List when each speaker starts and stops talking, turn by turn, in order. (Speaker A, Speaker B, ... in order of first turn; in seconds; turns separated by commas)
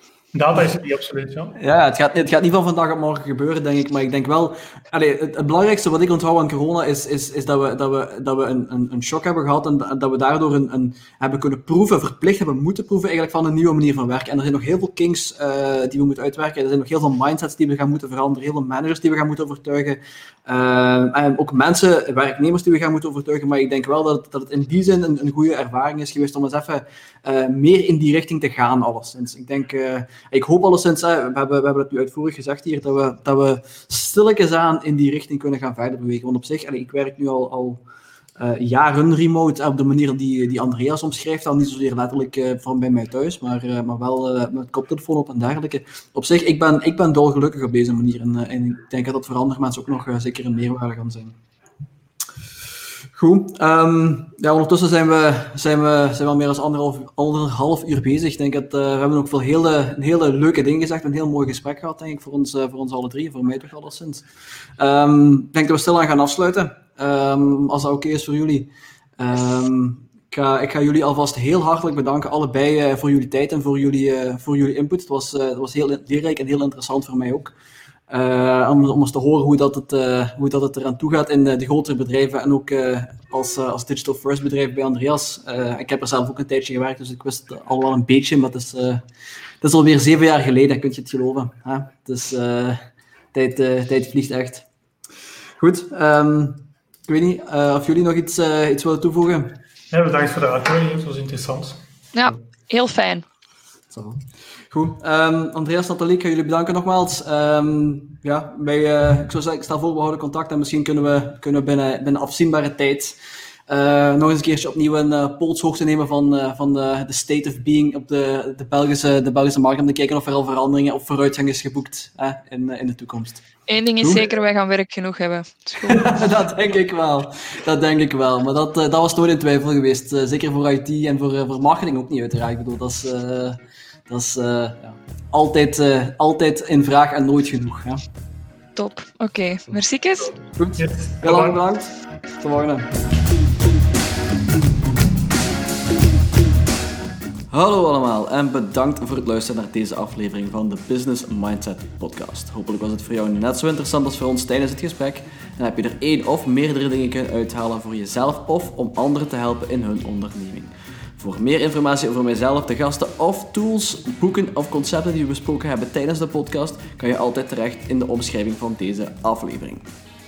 Speaker A: 0.3-1.6, Speaker B: 1.6-37.8, Speaker B: 38.4-51.4, Speaker B: 53.1-64.2, Speaker B: 64.8-77.5, Speaker B: 78.1-89.0, Speaker B: 89.6-92.8, Speaker B: 93.3-94.7, Speaker B: 95.6-99.6, Speaker A: 99.9-101.8, Speaker C: 102.1-103.2, Speaker B: 103.9-113.2, Speaker B: 113.7-123.4, Speaker C: 123.7-126.2, Speaker B: 124.0-124.2, Speaker B: 125.8-138.0, Speaker C: 138.8-140.3, Speaker B: 140.6-142.9, Speaker A: 140.8-141.6, Speaker B: 147.5-169.9